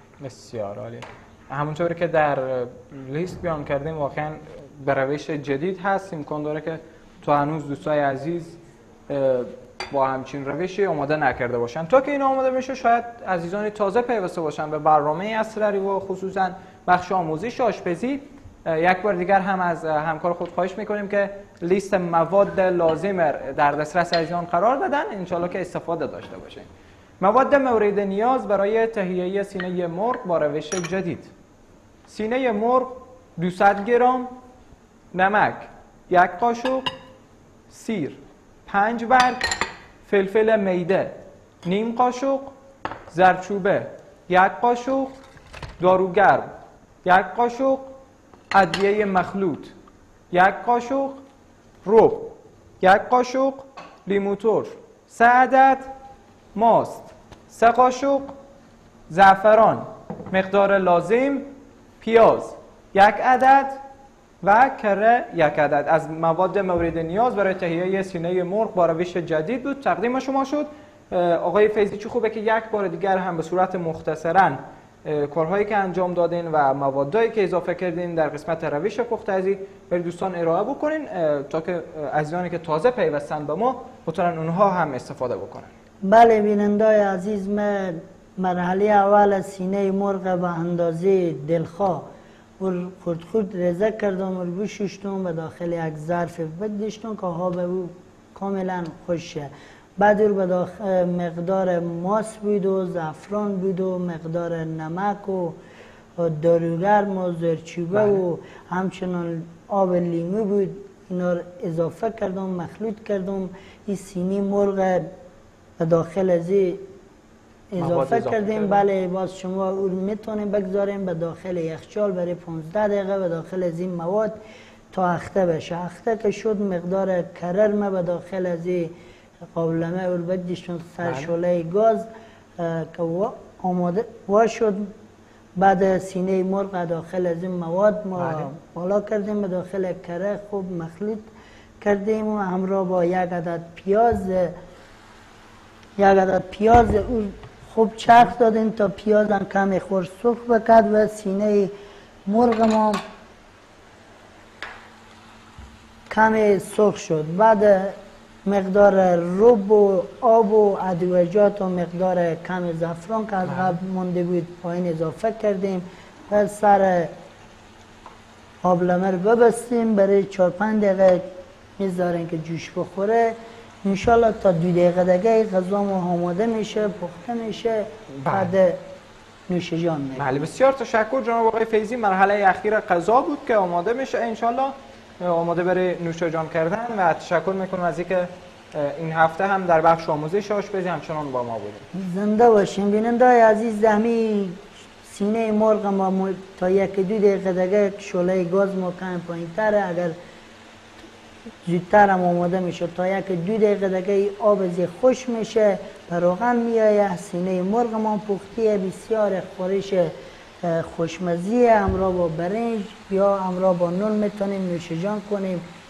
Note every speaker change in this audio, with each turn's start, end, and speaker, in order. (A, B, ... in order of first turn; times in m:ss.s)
0:00.2-0:26.7 A
0:27.2-0:31.3 A
0:32.1-0:34.3 A
0:35.1-0:36.9 A
0:37.7-0:39.5 A
0:40.0-0:42.5 A
0:43.1-0:45.1 A
0:45.8-0:46.5 A
0:47.0-0:47.9 A
0:48.5-0:49.7 A
0:50.3-0:51.2 A
0:51.8-0:55.9 A
0:56.6-0:58.3 A
0:59.1-1:03.8 A
1:04.4-1:25.7 A
1:26.0-1:32.1 B
1:32.6-1:45.6 B
1:46.2-1:55.1 B
1:47.9-1:48.2 A
1:55.8-1:56.8 B
1:57.7-2:04.4 B
1:57.8-1:58.8 A
2:04.9-2:08.9 B
2:09.5-2:12.1 B
2:11.0-2:11.3 A
2:12.6-2:14.9 B
2:15.6-2:24.6 B
2:18.2-2:18.5 A
2:26.0-2:31.7 B
2:32.3-2:33.0 B
2:36.1-2:47.1 B
2:43.5-2:43.8 A
2:48.6-2:58.8 B
2:58.2-2:58.5 A
2:59.5-3:00.4 B
3:00.2-3:11.8 A
3:11.9-3:20.2 B
3:21.6-3:35.6 B